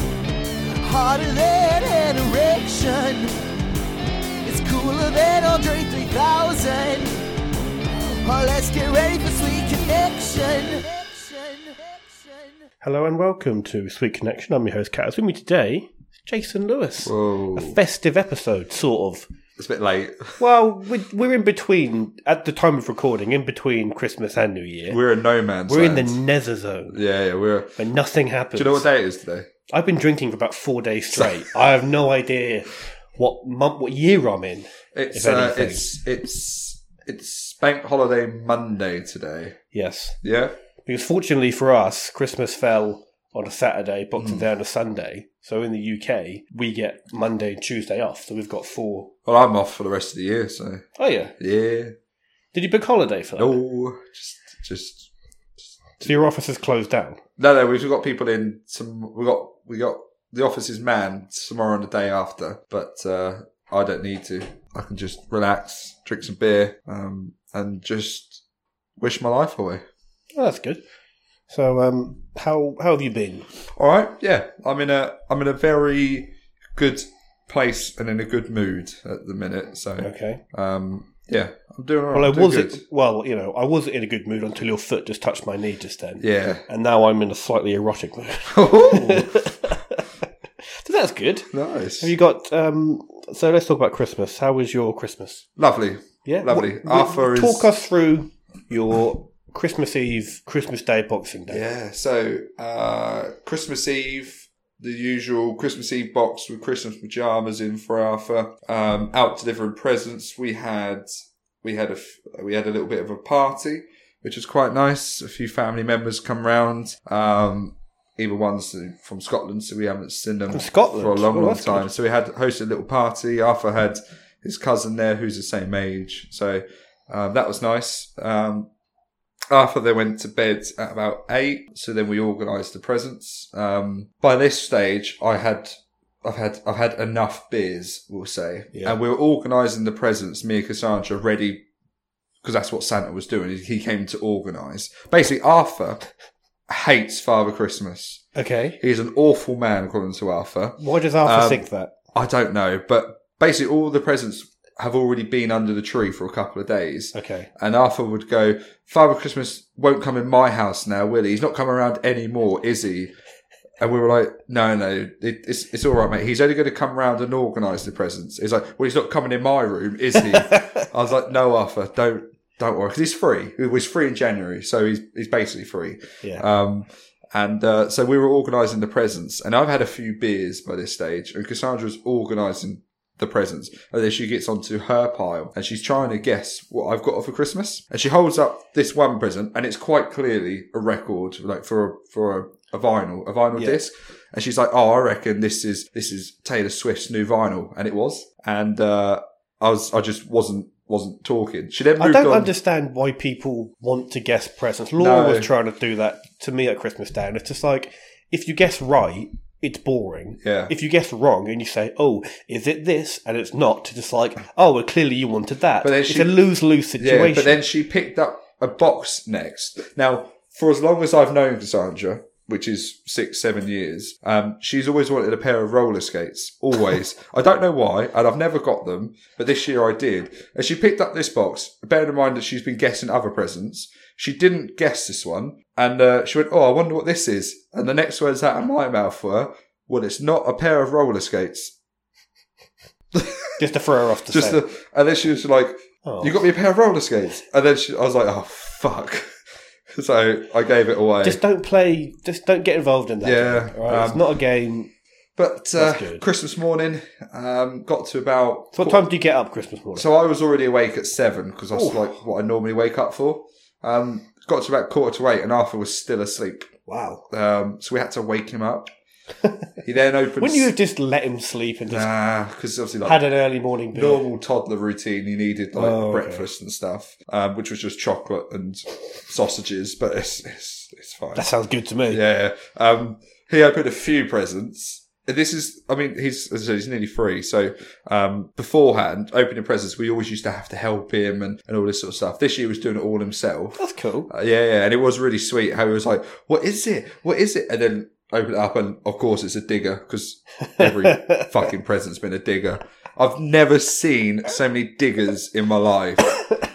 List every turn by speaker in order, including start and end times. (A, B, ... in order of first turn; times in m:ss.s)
0:00.8-0:03.3 A
0:04.4-0:07.2 A
0:08.1-0:12.4 A
0:12.8-0:19.3 B
0:17.0-0:17.8 C
0:19.6-0:20.4 C
0:20.4-0:25.0 B
0:24.9-0:26.2 C
0:25.7-0:27.0 B
0:26.9-0:27.8 C
0:27.8-0:28.9 B
0:28.5-0:29.5 C
0:29.7-0:35.8 B
0:31.1-0:31.5 C
0:34.9-0:39.6 C
0:39.7-0:40.2 B
0:40.2-0:40.5 C
0:40.8-0:49.1 B
0:44.2-0:44.4 C
0:49.2-0:50.8 C
0:51.0-0:51.3 B
0:51.4-0:51.9 C
0:52.5-0:53.6 B
0:53.4-0:55.1 C
0:55.6-0:56.1 C
0:56.0-0:57.2 B
0:57.4-1:08.4 C
1:09.0-1:09.8 C
1:10.4-1:10.8 B
1:11.5-1:13.5 B
1:13.7-1:22.8 C
1:20.0-1:20.4 B
1:22.1-1:31.5 B
1:26.2-1:26.6 C
1:28.5-1:29.5 C
1:31.5-1:32.1 C
1:32.0-1:35.5 B
1:35.6-1:37.7 C
1:36.2-1:41.6 B
1:41.5-2:08.7 C
2:00.5-2:01.9 B
2:09.5-2:21.6 C
2:22.4-2:26.0 C
2:26.7-2:28.2 C
2:28.3-2:28.8 B
2:28.8-2:31.6 C
2:30.8-2:31.9 B
2:32.1-2:43.1 C
2:37.1-2:37.5 B
2:43.8-3:22.5 C
2:50.3-2:50.8 B
3:13.5-3:13.8 B
3:22.0-3:37.6 B
3:25.0-3:25.5 C
3:30.4-3:30.7 C
3:35.8-3:36.4 C
3:37.0-4:01.7 C
4:03.1-4:03.6 C
4:03.6-4:04.6 B
4:04.3-4:09.3 C
4:06.0-4:06.4 B
4:09.9-4:11.4 C
4:11.2-4:14.9 B
4:13.2-4:14.2 C
4:15.4-4:19.1 C
4:15.7-4:16.2 B
4:18.7-4:20.0 B
4:19.9-4:28.9 C
4:21.7-4:22.2 B
4:26.9-4:27.2 B
4:29.8-4:30.7 C
4:30.4-4:32.1 B
4:31.9-4:33.2 C
4:33.0-4:34.2 B
4:33.9-4:41.5 C
4:35.7-4:36.5 B
4:41.3-4:42.2 B
4:42.1-5:06.4 C
4:53.8-4:54.3 B
5:00.8-5:01.5 B